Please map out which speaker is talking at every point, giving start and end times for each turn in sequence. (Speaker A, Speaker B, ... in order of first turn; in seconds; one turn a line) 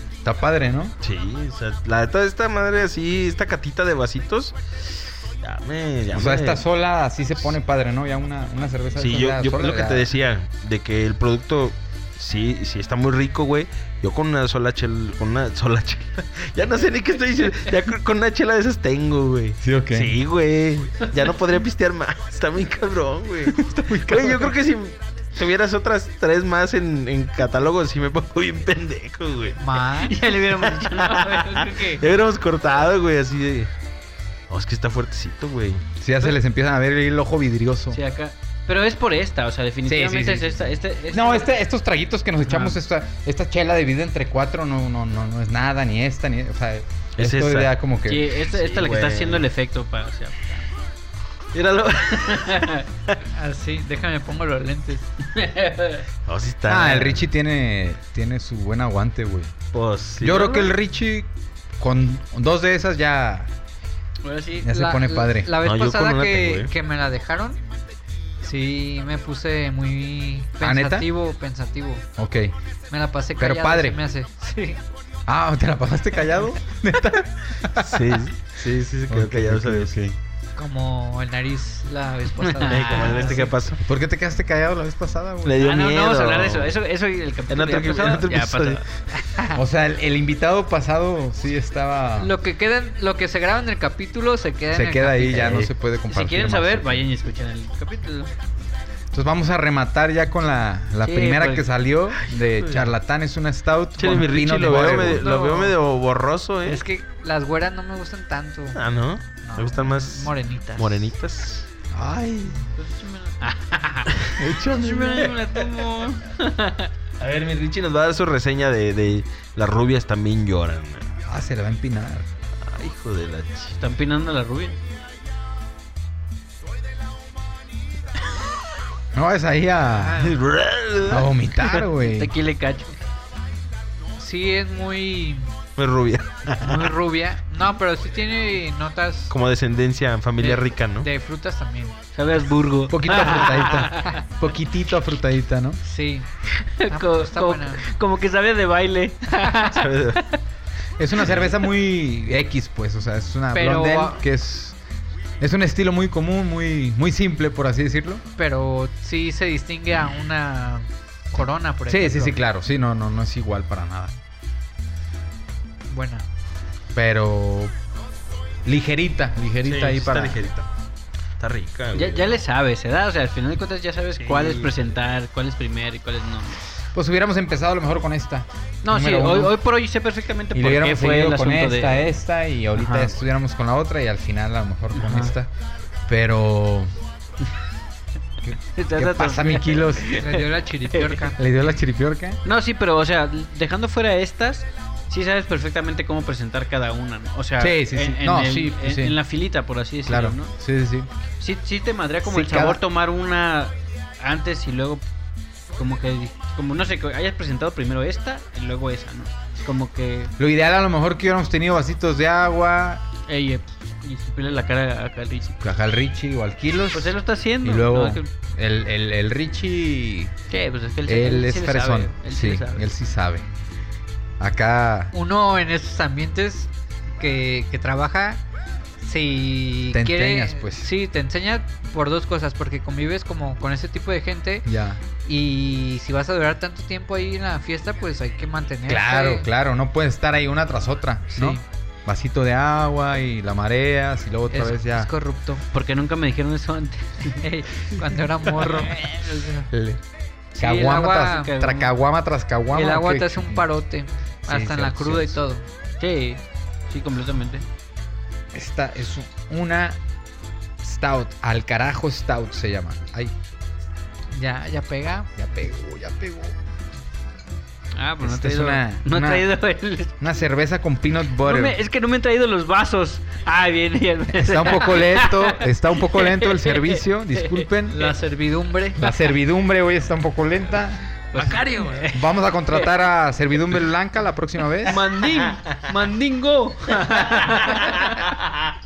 Speaker A: 0.2-0.9
Speaker B: 1.0-6.6
Speaker A: 6.1-10.1
Speaker B: 9.0-29.6
Speaker A: 19.6-20.2
Speaker A: 23.5-24.5
Speaker C: 29.6-30.3
Speaker D: 30.0-32.0
Speaker B: 30.7-33.7
Speaker B: 34.5-35.9
Speaker A: 36.0-38.0
Speaker D: 37.9-41.5
Speaker A: 39.9-48.3
Speaker D: 42.5-42.8
Speaker B: 47.2-47.8
Speaker D: 48.1-50.7
Speaker B: 48.5-49.5
Speaker D: 51.5-53.0
Speaker C: 53.3-55.1
Speaker D: 55.2-56.1
Speaker B: 56.3-57.2
Speaker A: 56.7-59.5
Speaker B: 59.7-60.7
Speaker A: 60.2-63.5
Speaker D: 64.2-64.7
Speaker A: 64.6-65.5
Speaker C: 64.7-67.6
Speaker B: 65.6-66.7
Speaker C: 68.4-72.0
Speaker A: 70.6-71.1
Speaker A: 72.2-72.5
Speaker C: 72.9-74.8
Speaker A: 73.4-74.0
Speaker A: 75.3-80.0
Speaker B: 77.7-80.2
Speaker C: 80.6-83.5
Speaker D: 82.4-83.3
Speaker B: 82.7-83.8
Speaker A: 83.8-85.7
Speaker B: 85.4-86.8
Speaker D: 85.6-89.5
Speaker B: 87.5-88.8
Speaker A: 89.5-92.3
Speaker C: 92.2-95.7
Speaker A: 94.7-97.1
Speaker B: 95.4-95.7
Speaker D: 96.1-98.3
Speaker A: 99.1-105.3
Speaker D: 101.0-101.7
Speaker B: 102.6-102.9
Speaker B: 104.0-106.8
Speaker C: 104.6-105.8
Speaker C: 106.7-108.8
Speaker B: 108.8-111.7
Speaker C: 109.4-111.1
Speaker A: 111.9-112.6
Speaker D: 112.7-116.9
Speaker B: 114.3-115.2
Speaker A: 114.5-115.0
Speaker B: 117.2-121.1
Speaker A: 121.2-122.3
Speaker B: 122.6-123.7
Speaker D: 123.8-124.8
Speaker A: 129.1-130.3
Speaker C: 129.9-130.3
Speaker B: 130.2-131.3
Speaker A: 131.1-132.3
Speaker D: 131.8-133.0
Speaker C: 134.2-135.5
Speaker B: 135.8-136.8
Speaker C: 136.6-139.3
Speaker B: 139.3-141.1
Speaker C: 140.4-141.9
Speaker D: 142.2-144.1
Speaker A: 142.9-145.8
Speaker C: 145.8-146.3
Speaker D: 146.5-150.4
Speaker C: 146.9-147.8
Speaker B: 149.7-150.2
Speaker A: 151.0-154.8
Speaker C: 153.5-154.2
Speaker A: 155.4-158.2
Speaker C: 158.4-162.4
Speaker A: 161.9-164.2
Speaker C: 165.9-166.2
Speaker A: 166.9-167.7
Speaker A: 168.7-170.4
Speaker B: 169.6-170.7
Speaker B: 171.4-172.4
Speaker D: 171.9-176.6
Speaker B: 174.2-174.8
Speaker A: 176.9-179.6
Speaker D: 178.8-182.1
Speaker A: 180.5-185.5
Speaker D: 182.8-183.1
Speaker D: 184.9-185.3
Speaker A: 186.1-186.9
Speaker A: 188.4-190.2
Speaker D: 188.8-191.3
Speaker C: 190.2-191.4
Speaker A: 191.3-192.4
Speaker D: 192.4-200.5
Speaker A: 197.6-199.2
Speaker A: 200.1-201.1
Speaker D: 201.4-205.0
Speaker A: 202.2-202.8
Speaker D: 205.7-210.3
Speaker A: 210.4-213.0
Speaker D: 213.3-215.6
Speaker A: 215.6-220.3
Speaker D: 216.9-218.3
Speaker D: 220.5-222.9
Speaker A: 221.1-223.5
Speaker A: 224.4-225.1
Speaker C: 225.1-228.4
Speaker C: 229.0-234.7
Speaker A: 229.9-230.9
Speaker A: 234.7-235.0
Speaker C: 235.2-239.5
Speaker A: 238.9-245.1
Speaker C: 241.3-241.6
Speaker C: 244.5-245.6
Speaker D: 245.7-247.5
Speaker C: 247.4-249.5
Speaker D: 248.9-249.6
Speaker A: 249.7-250.0
Speaker A: 250.6-253.7
Speaker C: 250.6-251.5
Speaker D: 251.1-251.9
Speaker C: 252.7-255.7
Speaker A: 254.5-255.4
Speaker D: 256.0-257.7
Speaker A: 258.5-260.0
Speaker A: 260.8-263.3
Speaker C: 264.3-265.3
Speaker A: 265.4-266.6
Speaker D: 268.0-270.2
Speaker A: 268.2-269.5
Speaker A: 270.2-271.8
Speaker D: 271.4-277.7
Speaker A: 274.3-278.2
Speaker C: 277.9-279.2
Speaker A: 279.0-281.0
Speaker D: 281.3-282.9
Speaker B: 281.4-282.0
Speaker A: 282.1-285.1
Speaker D: 284.8-288.1
Speaker B: 285.5-285.8
Speaker B: 287.3-288.5